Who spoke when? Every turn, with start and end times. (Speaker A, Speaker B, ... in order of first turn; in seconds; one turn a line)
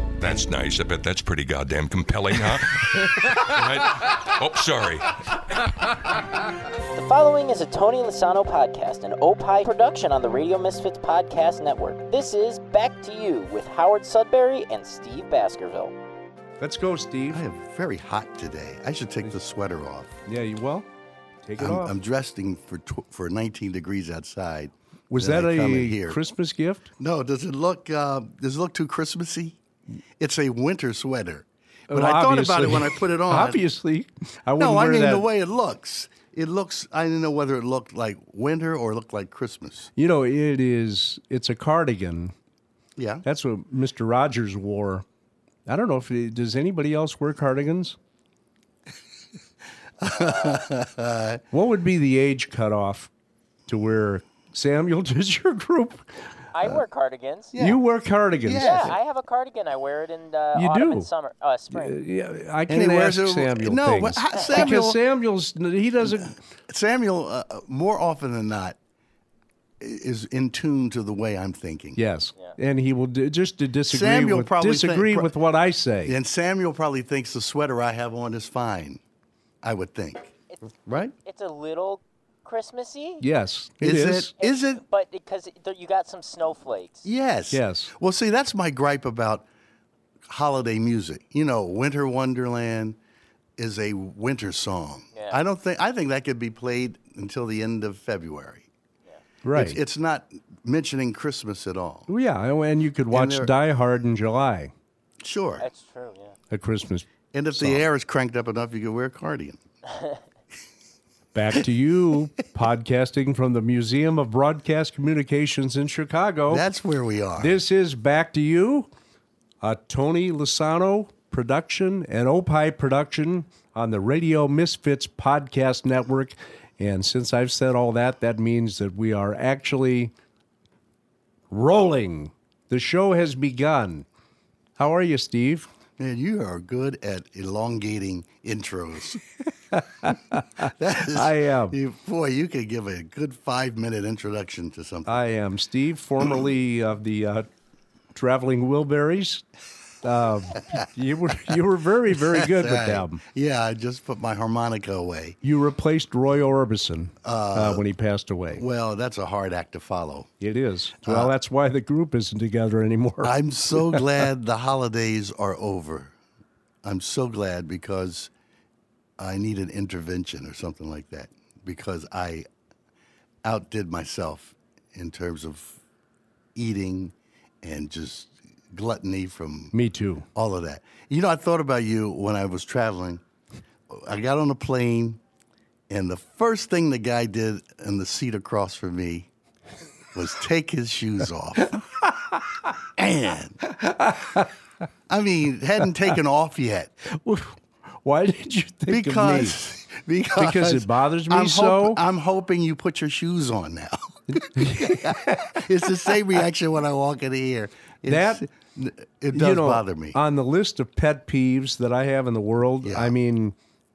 Speaker A: 0.2-5.2
Speaker B: 6.9-15.9
Speaker C: 16.6-17.4
Speaker D: 17.3-20.2
Speaker C: 20.3-20.9
Speaker C: 21.4-21.9
Speaker D: 21.6-26.2
Speaker C: 25.1-26.9
Speaker D: 27.0-29.6
Speaker D: 30.2-33.6
Speaker C: 31.9-35.2
Speaker D: 34.6-39.9
Speaker C: 40.0-42.3
Speaker D: 43.0-43.2
Speaker C: 43.2-45.0
Speaker C: 45.7-48.0
Speaker D: 50.0-51.4
Speaker B: 50.1-50.6
Speaker C: 51.5-53.1
Speaker C: 53.7-56.1
Speaker B: 56.5-57.5
Speaker D: 57.5-57.8
Speaker C: 57.5-58.9
Speaker D: 58.4-59.0
Speaker B: 58.5-62.0
Speaker C: 60.5-61.1
Speaker C: 61.7-66.3
Speaker D: 62.7-65.0
Speaker D: 66.0-68.8
Speaker D: 69.8-72.0
Speaker C: 72.0-76.1
Speaker D: 73.9-75.3
Speaker D: 76.0-79.0
Speaker D: 79.6-80.3
Speaker D: 80.8-81.1
Speaker B: 81.2-83.2
Speaker C: 83.2-84.3
Speaker D: 83.8-84.8
Speaker B: 84.4-87.1
Speaker D: 87.0-89.5
Speaker C: 87.5-87.9
Speaker D: 90.3-93.0
Speaker D: 93.6-98.7
Speaker B: 95.1-95.4
Speaker C: 99.4-99.8
Speaker D: 99.5-102.1
Speaker C: 102.1-104.7
Speaker D: 103.1-103.5
Speaker D: 105.2-105.7
Speaker B: 105.6-106.3
Speaker C: 106.5-107.8
Speaker D: 107.3-109.6
Speaker C: 111.3-116.6
Speaker D: 116.5-117.6
Speaker C: 117.4-118.9
Speaker C: 119.6-130.1
Speaker C: 131.5-134.0
Speaker C: 134.8-135.7
Speaker D: 136.0-139.2
Speaker C: 139.7-141.8
Speaker D: 140.6-145.2
Speaker C: 145.1-147.5
Speaker C: 148.1-149.4
Speaker C: 150.0-153.2
Speaker D: 152.1-155.4
Speaker C: 155.4-158.6
Speaker D: 157.2-157.8
Speaker D: 158.5-160.3
Speaker C: 160.4-164.0
Speaker D: 161.0-161.3
Speaker D: 163.2-166.1
Speaker D: 166.8-168.3
Speaker D: 169.2-172.4
Speaker D: 173.4-175.8
Speaker D: 176.5-179.7
Speaker C: 179.7-180.2
Speaker D: 180.3-183.2
Speaker D: 183.9-185.2
Speaker D: 185.9-189.3
Speaker D: 190.1-191.8
Speaker D: 192.9-193.6
Speaker C: 193.8-194.5
Speaker D: 195.1-196.9
Speaker C: 197.1-199.6
Speaker D: 198.9-210.2
Speaker C: 200.3-202.0
Speaker C: 204.3-205.6
Speaker C: 208.1-208.4
Speaker C: 209.3-213.6
Speaker D: 212.8-213.1